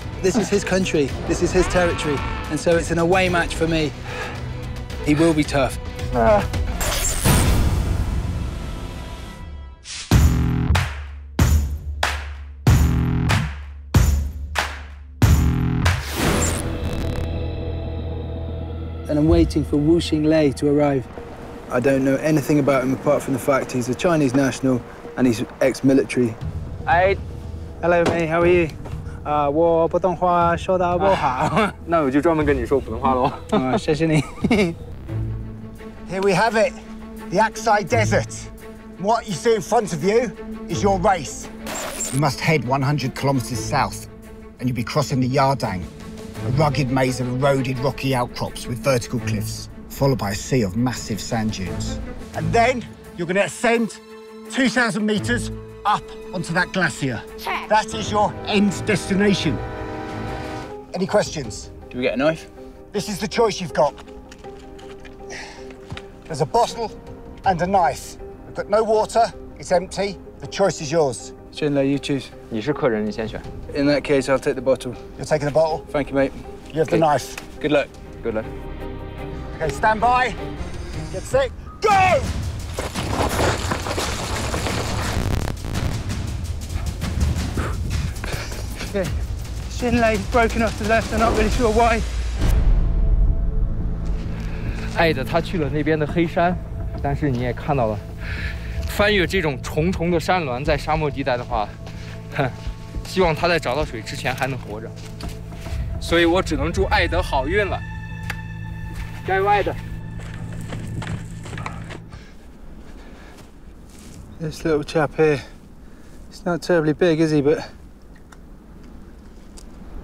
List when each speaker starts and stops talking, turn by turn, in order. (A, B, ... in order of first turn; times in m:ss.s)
0:00.2-0:04.0 A
0:05.0-0:05.8 A
0:06.1-0:06.4 B
0:19.1-0:21.1 A
0:21.7-0:26.4 A
0:26.8-0:27.2 B
0:27.8-0:31.7 A
0:31.0-0:33.8 B
0:33.5-0:34.8 A
0:36.1-0:36.7 C
0:37.3-0:41.5 C
0:42.1-0:45.9 C
0:46.4-0:59.6 C
1:00.9-1:01.7 C
1:01.9-1:02.5 A
1:02.9-1:04.0 C
1:06.3-1:11.3 C
1:11.5-1:12.3 A
1:12.5-1:13.4 B
1:13.7-1:15.0 A
1:15.2-1:15.8 C
1:15.9-1:16.4 A
1:16.7-1:17.4 C
1:17.6-1:17.9 A
1:18.2-1:18.5 B
1:19.5-1:20.4 C
1:21.1-1:22.3 C
1:28.8-1:29.1 A
1:29.7-1:32.0 A
1:34.9-1:38.0 B
1:38.8-1:41.8 B
1:42.3-1:44.9 B
1:46.0-1:47.8 B
1:49.2-1:49.8 B
1:54.4-1:55.4 A
1:56.3-1:57.7 A